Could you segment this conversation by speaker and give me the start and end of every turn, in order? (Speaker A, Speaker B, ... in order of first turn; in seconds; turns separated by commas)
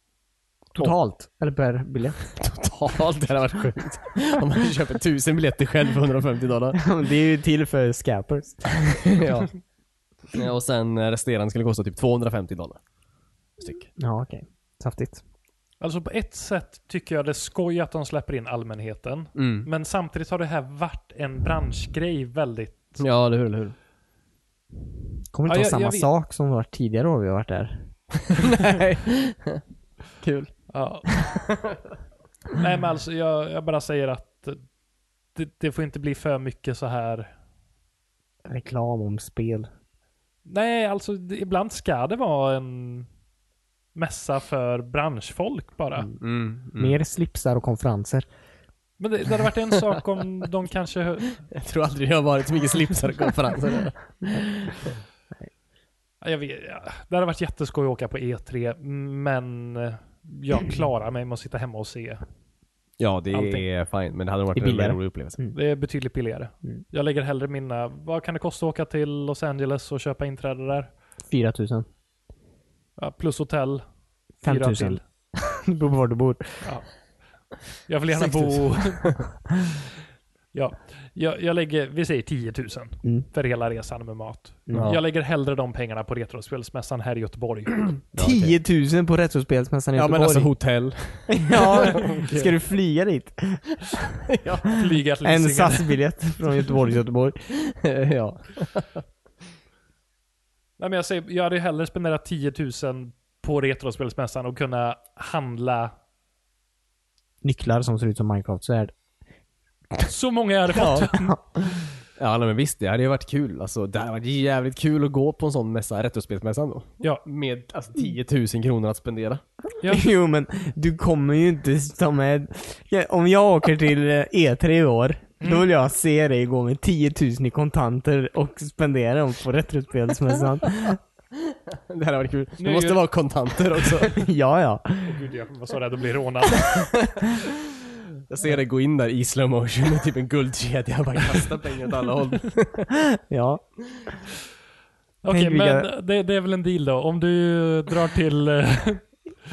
Speaker A: 0.8-2.4, Speaker B: 2.4-6.8, Speaker A: 6.7-9.1, Speaker B: 8.7-9.5, Speaker B: 10.3-12.8, Speaker B: 13.6-13.9, Speaker A: 14.0-15.2, Speaker C: 15.8-23.0, Speaker B: 19.3-19.7, Speaker B: 23.0-23.8, Speaker A: 25.3-27.9, Speaker C: 25.5-26.1, Speaker B: 28.3-29.6, Speaker B: 30.2-30.5, Speaker C: 30.7-31.4, Speaker C: 32.5-34.6, Speaker C: 35.3-37.3, Speaker A: 38.5-39.7, Speaker C: 40.5-43.1, Speaker C: 43.9-46.1, Speaker B: 46.2-47.0, Speaker A: 46.8-48.2, Speaker C: 49.0-51.4, Speaker B: 51.5-54.9, Speaker C: 56.2-62.2, Speaker B: 63.0-65.4, Speaker C: 63.3-63.6, Speaker A: 64.5-65.5, Speaker C: 65.5-70.9, Speaker A: 71.3-71.8, Speaker C: 73.0-73.8, Speaker A: 74.4-76.7, Speaker C: 74.4-75.0, Speaker C: 76.6-76.9, Speaker C: 77.8-79.2, Speaker C: 80.5-87.9, Speaker B: 84.7-85.0, Speaker B: 88.1-88.6, Speaker A: 88.2-90.5, Speaker B: 89.9-92.5, Speaker A: 91.3-94.0, Speaker B: 94.3-94.7, Speaker C: 94.7-96.0, Speaker A: 95.2-97.4, Speaker B: 97.6-99.0, Speaker C: 100.8-105.9, Speaker A: 107.4-108.9, Speaker C: 110.0-111.3, Speaker B: 110.7-119.4, Speaker A: 111.1-111.4, Speaker C: 119.8-120.0, Speaker A: 119.8-131.0, Speaker C: 125.4-125.7, Speaker B: 131.5-134.2, Speaker C: 132.6-133.0, Speaker A: 134.0-135.2, Speaker C: 135.0-136.9, Speaker B: 136.6-137.4, Speaker B: 138.3-142.9, Speaker A: 142.9-143.6, Speaker C: 145.2-149.0, Speaker A: 145.3-145.9